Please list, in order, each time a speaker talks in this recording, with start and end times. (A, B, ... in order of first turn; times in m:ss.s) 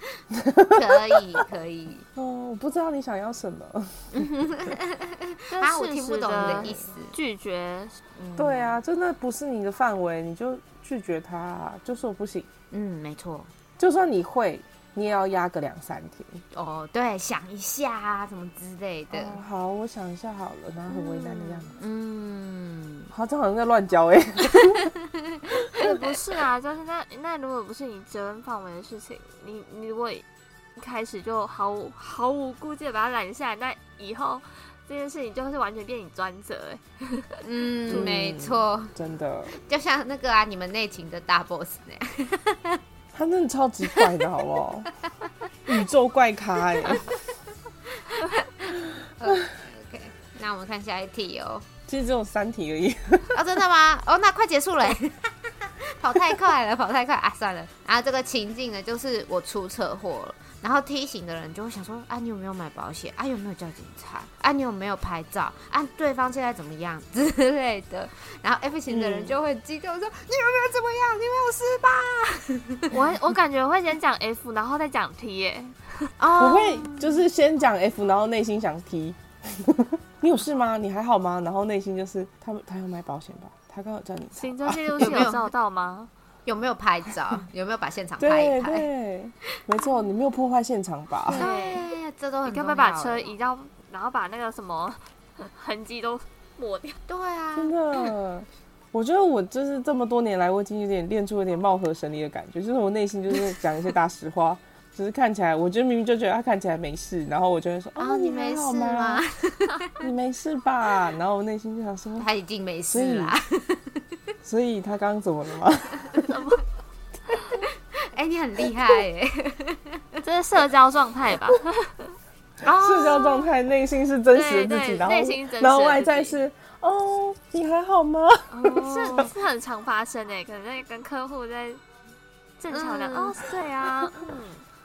0:00.3-0:00.8 A
0:00.7-0:02.1 B
0:02.2-0:04.7 A
0:04.1-0:07.1 B
0:05.5-0:08.0 C
0:06.4-0:06.8 A
0:08.2-0:08.8 B
0:08.4-0:12.5 A
0:12.7-0:13.5 B
0:13.8-0:16.4 A
0:16.5-0:19.4 B
0:19.1-0:21.7 A
0:20.9-0:21.6 C
0:21.7-0:23.1 B
0:23.1-0:24.9 A
0:24.6-0:26.2 B
0:25.8-0:30.2 C
0:30.8-0:37.4 C
0:37.4-0:38.9 B
0:37.9-0:39.6 A
0:39.5-0:42.8 B
0:43.1-0:44.9 A
0:45.6-0:47.1 A
0:46.8-0:47.1 B
0:47.9-0:51.7 B
0:51.9-0:53.4 A
0:53.3-1:13.0 B
1:08.9-1:09.4 A
1:12.9-1:16.1 C
1:16.2-1:17.2 B
1:16.4-1:25.3 A
1:24.4-1:26.1 C
1:25.0-1:25.5 B
1:26.4-1:28.9 B
1:28.2-1:31.5 A
1:31.3-1:31.9 C
1:31.3-1:33.3 B
1:32.4-1:37.0 C
1:37.1-1:37.7 B
1:37.6-1:49.2 A
1:48.0-1:50.1 B
1:50.0-1:52.3 A
1:52.2-1:54.0 B
1:52.9-1:53.4 A
1:54.4-1:56.4 A
1:56.2-1:56.6 C
1:57.6-2:00.2 B
2:00.2-2:03.5 C
2:02.6-2:09.3 A
2:04.3-2:06.4 C
2:08.5-2:09.3 B
2:08.6-2:11.8 C
2:12.6-2:14.6 C
2:12.7-2:13.4 B